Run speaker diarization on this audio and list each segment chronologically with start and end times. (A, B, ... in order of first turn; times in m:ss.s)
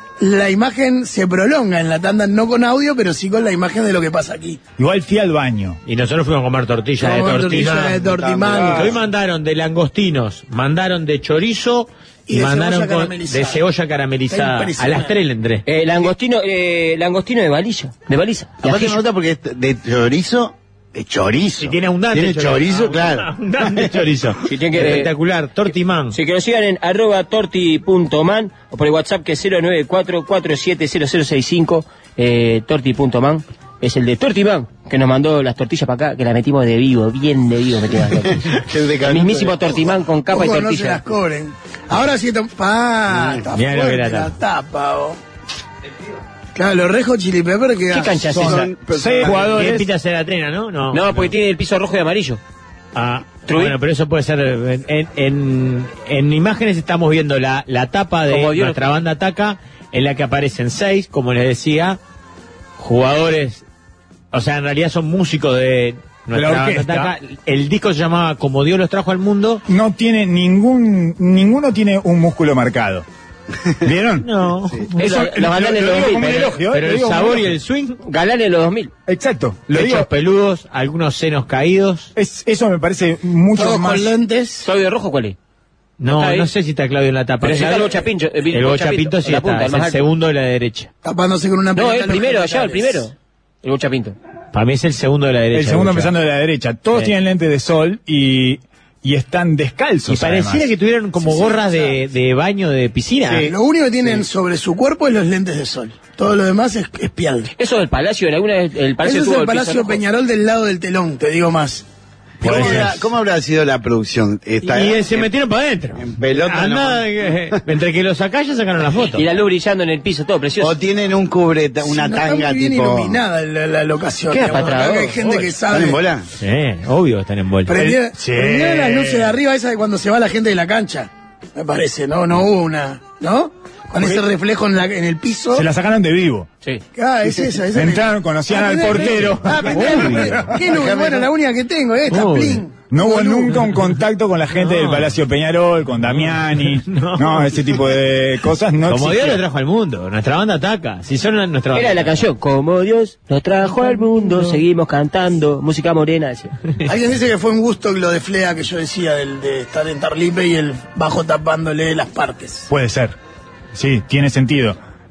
0:00.2-0:04.6 A
0:04.8-0:05.8 B
0:05.8-0:08.0 C
0:07.0-0:09.0 A
0:07.6-0:09.0 D
0:08.5-0:15.6 C
0:12.3-0:13.6 A
0:14.3-0:15.1 A
0:15.6-0:19.0 E
0:18.6-0:24.1 D
0:21.6-0:26.2 C
0:24.4-0:25.1 E
0:26.1-0:38.4 E
0:38.1-0:39.8 D
0:39.0-0:41.0 E
0:40.3-0:45.2 A
0:43.1-0:43.4 D
0:43.5-0:44.3 C
0:46.5-0:48.4 A
0:47.9-0:48.7 E
0:48.3-0:49.9 B
0:48.4-0:49.5 D
0:49.5-0:51.3 C
0:50.9-0:52.4 E
0:52.9-1:02.0 C
0:53.5-0:53.7 E
0:58.3-0:58.8 E
1:02.8-1:03.6 C
1:04.3-1:09.6 C
1:06.3-1:07.1 B
1:09.7-1:13.0 B
1:13.8-1:14.3 B
1:14.2-1:15.3 C
1:15.0-1:17.5 B
1:15.0-1:16.6 E
1:16.7-1:18.0 C
1:18.0-1:18.9 E
1:19.1-1:20.1 B
1:19.7-1:22.1 C
1:22.1-1:24.1 B
1:23.5-1:24.7 A
1:24.6-1:25.4 E
1:26.0-1:30.9 C
1:26.1-1:26.5 E
1:27.4-1:30.0 E
1:31.0-1:33.0 A
1:31.7-1:34.2 E
1:34.5-1:36.1 C
1:35.5-1:40.7 B
1:40.1-1:43.5 C
1:41.2-1:41.9 A
1:43.3-1:47.5 A
1:47.6-1:50.0 E
1:49.0-1:51.8 A
1:52.4-1:55.3 D
1:52.4-1:53.0 C
1:52.4-1:52.9 A
1:54.6-1:59.2 C
1:56.0-1:57.6 D
1:59.1-2:00.8 E
2:00.6-2:03.2 D
2:01.8-2:06.0 A
2:04.3-2:05.2 E
2:04.5-2:05.5 C
2:05.7-2:06.2 D
2:06.4-2:07.7 C
2:07.7-2:15.7 A
2:07.7-2:09.4 B
2:14.0-2:14.2 B
2:15.5-2:16.5 B
2:17.0-2:23.6 A
2:17.7-2:20.6 B
2:20.4-2:21.3 D
2:22.1-2:22.6 C
2:22.9-2:29.4 B
2:24.6-2:25.1 C
2:26.2-2:27.7 C
2:28.8-2:32.2 C
2:31.7-2:36.5 E
2:36.8-2:42.7 A
2:42.7-2:43.2 B
2:43.7-2:44.8 B